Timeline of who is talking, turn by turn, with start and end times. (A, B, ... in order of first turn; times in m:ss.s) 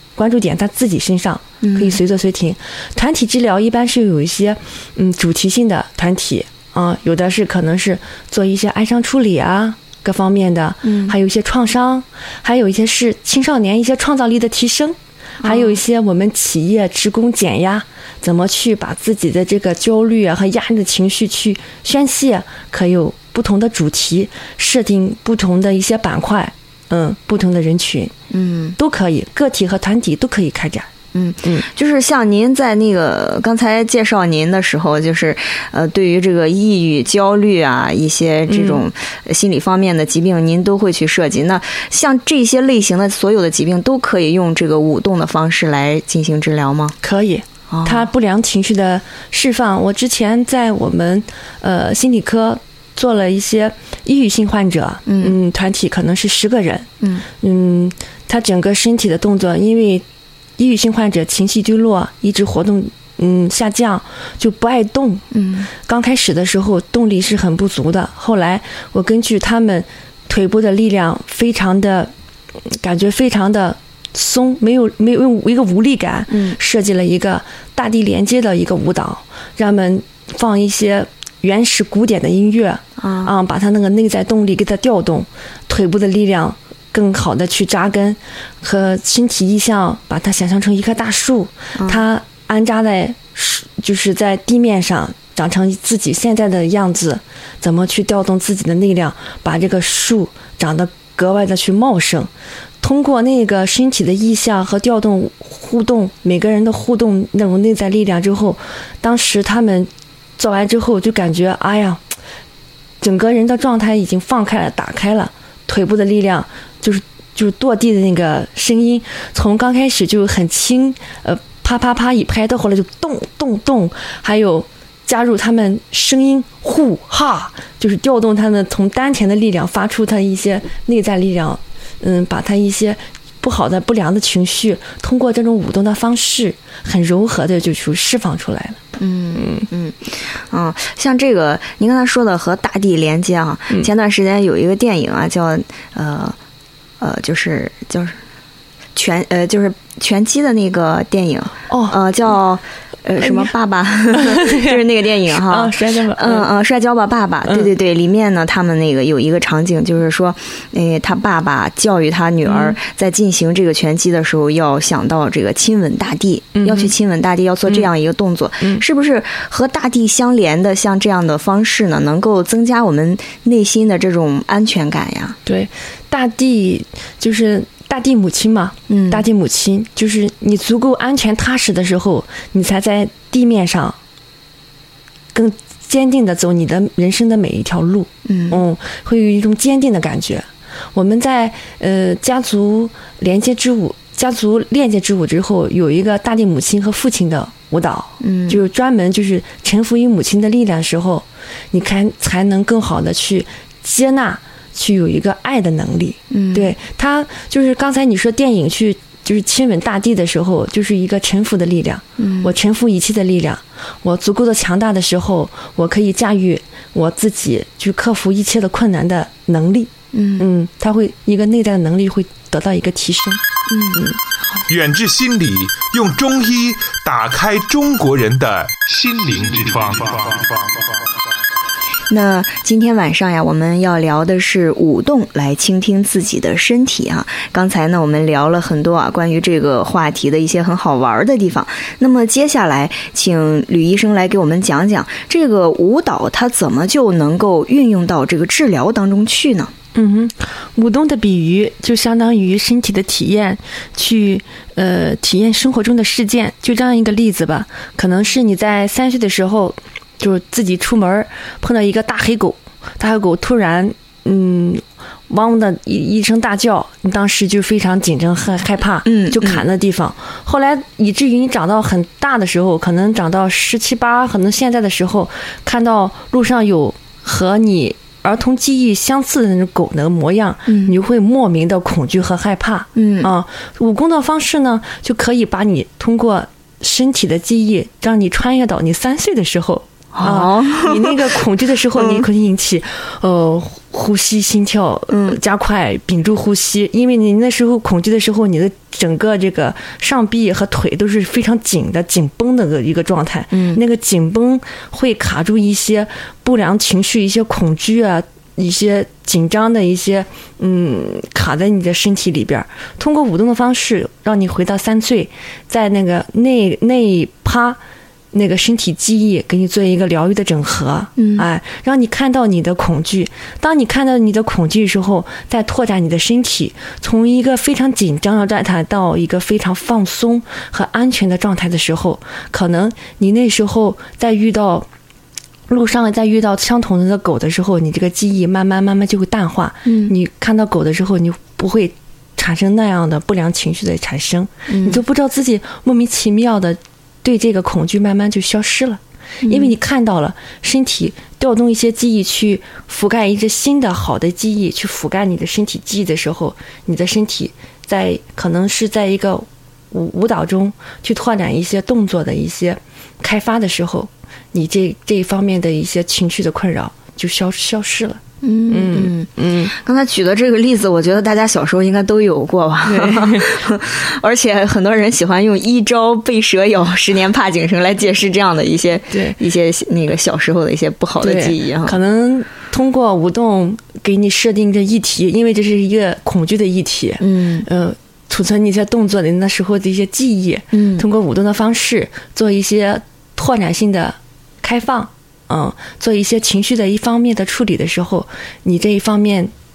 0:00.2-0:28.1 A
0:01.6-0:02.0 B
0:10.8-0:11.1 B
0:15.4-0:15.8 B
0:28.3-0:28.8 B
0:28.8-0:30.9 A
0:31.1-0:47.0 B
0:38.5-0:38.8 A
0:47.0-1:00.0 A
0:47.7-0:48.1 B
0:55.1-0:55.4 B
1:00.6-1:12.1 A
1:05.3-1:05.7 B
1:12.7-1:42.3 A
1:16.3-1:16.6 B
1:23.0-1:23.3 B
1:31.8-1:32.0 B
1:42.8-1:52.0 A
1:53.0-2:18.8 A
2:19.0-2:26.4 B
2:19.4-2:19.7 A
2:27.0-2:28.2 B
2:29.0-2:55.4 B
2:31.7-2:32.0 A
2:33.2-2:33.5 A
2:34.1-2:36.5 A
2:42.5-2:42.8 A
2:46.6-2:46.9 A
2:55.5-3:04.0 A
2:58.9-2:59.2 B
3:05.3-3:43.4 A
3:08.3-3:08.6 B
3:18.2-3:18.6 B
3:26.3-3:26.7 B
3:32.2-3:32.5 B
3:40.1-3:40.5 B
3:43.7-3:44.1 B
3:44.7-3:50.7 C
3:52.1-4:09.7 B
4:10.0-5:17.8 A
4:29.0-4:29.6 B
4:40.7-4:41.0 B
4:43.0-4:43.3 B
4:50.1-4:51.4 B
4:51.9-4:52.3 B
4:55.1-4:55.4 B
5:03.5-5:03.8 B
5:18.3-5:34.9 A
5:21.2-5:21.5 B
5:35.7-6:09.7 A
5:39.8-5:40.1 B
5:44.7-5:45.0 B
5:49.4-5:49.7 B
6:08.4-6:22.0 B
6:12.9-6:13.5 A
6:19.1-6:19.4 A
6:21.2-6:39.5 A
6:27.2-6:27.7 B
6:30.7-6:31.1 B